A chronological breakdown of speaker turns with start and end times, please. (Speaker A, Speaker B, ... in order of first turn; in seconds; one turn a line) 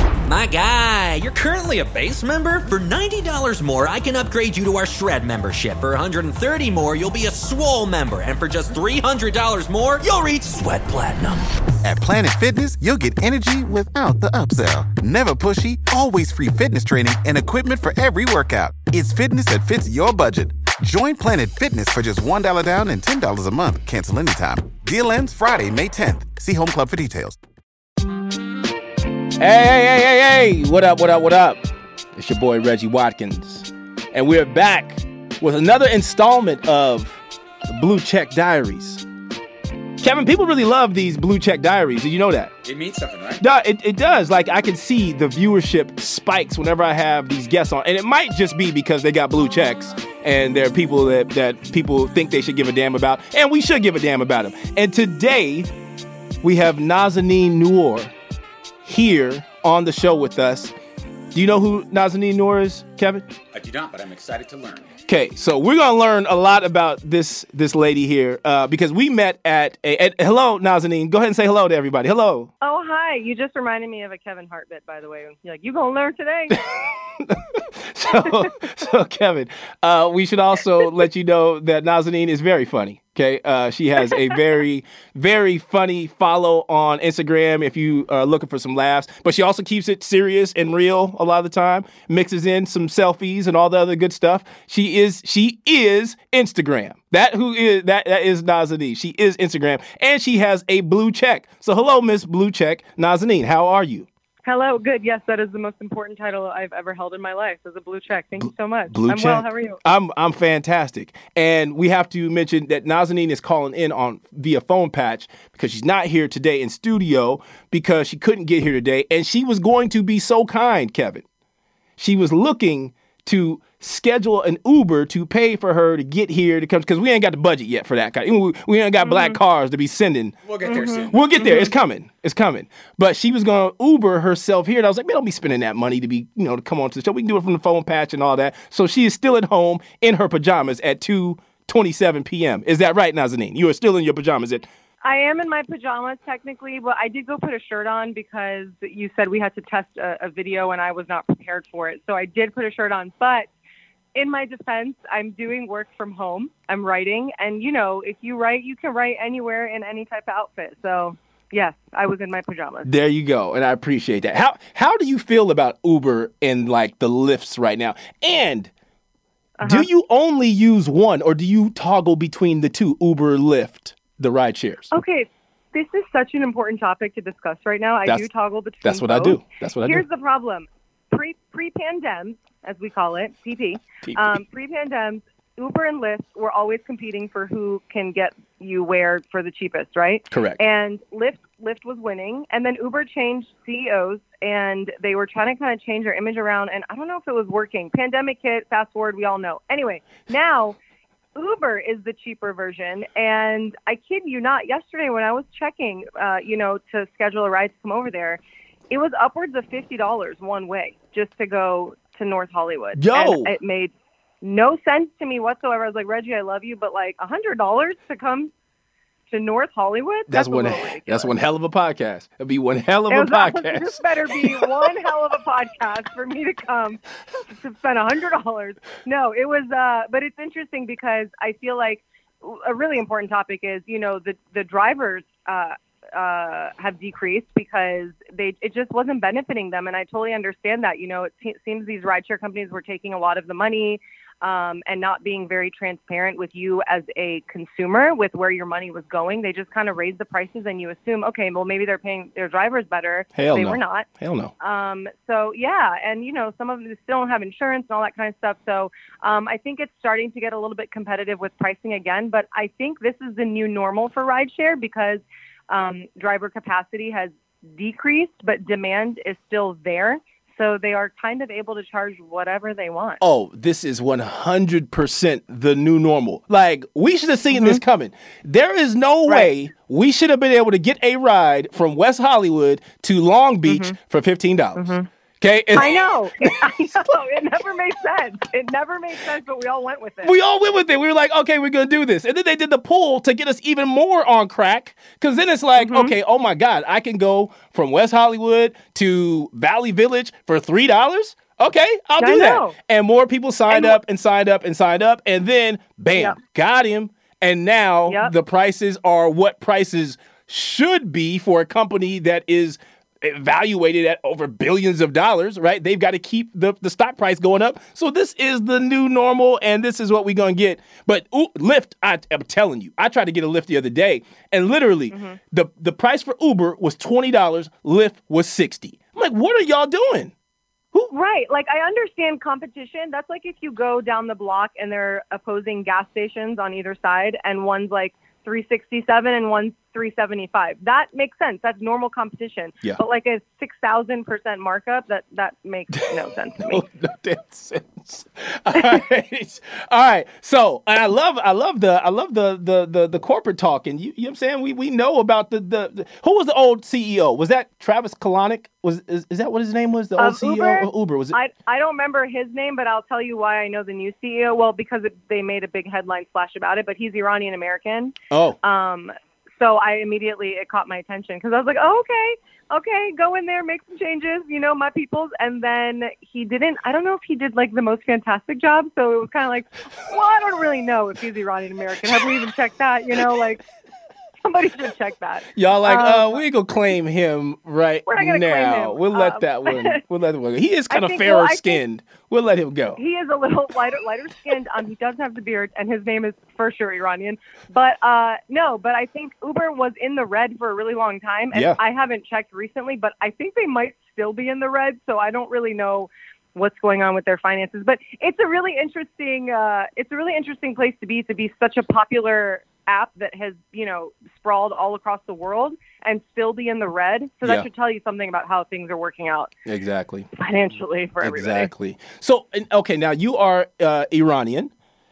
Speaker A: 0.2-11.5
Speaker B: 11.8-27.4
Speaker C: 29.4-39.0
Speaker C: 40.0-42.5
Speaker D: 42.6-43.4
Speaker C: 43.4-55.7
Speaker C: 56.4-58.1
Speaker C: 58.8-60.7
Speaker C: 61.3-63.3
Speaker D: 63.5-64.9
Speaker C: 65.1-72.5
Speaker E: 72.6-76.7
Speaker C: 77.2-104.1
Speaker E: 104.5-109.8
Speaker C: 108.4-121.2
Speaker C: 122.0-144.7
Speaker E: 129.0-129.4
Speaker D: 130.4-131.2
Speaker E: 130.6-131.7
Speaker E: 145.0-153.5
Speaker E: 154.2-162.9
Speaker C: 162.8-168.7
Speaker E: 169.6-169.9
Speaker C: 169.6-174.9
Speaker E: 174.9-200.8
Speaker C: 178.8-180.1
Speaker C: 184.0-184.4
Speaker C: 190.3-190.6
Speaker E: 201.4-208.4
Speaker E: 208.9-218.5
Speaker C: 212.9-213.6
Speaker E: 219.3-221.3
Speaker C: 220.3-224.7
Speaker E: 223.1-254.1
Speaker C: 253.3-254.5
Speaker E: 254.6-273.2
Speaker C: 273.2-287.1
Speaker E: 277.5-277.8
Speaker E: 283.7-284.0
Speaker E: 284.8-285.1
Speaker E: 285.8-290.4
Speaker C: 290.2-330.3
Speaker E: 295.8-296.1
Speaker E: 302.2-302.8
Speaker E: 303.7-304.0
Speaker E: 325.1-325.4
Speaker E: 331.1-346.9
Speaker C: 346.6-361.4
Speaker E: 360.2-383.6
Speaker C: 368.3-368.6
Speaker E: 384.4-386.4
Speaker C: 385.5-393.0
Speaker E: 388.1-390.0
Speaker E: 390.9-391.8
Speaker E: 393.0-419.5
Speaker C: 401.5-401.8
Speaker C: 419.7-420.3
Speaker E: 420.4-421.7
Speaker C: 421.2-424.7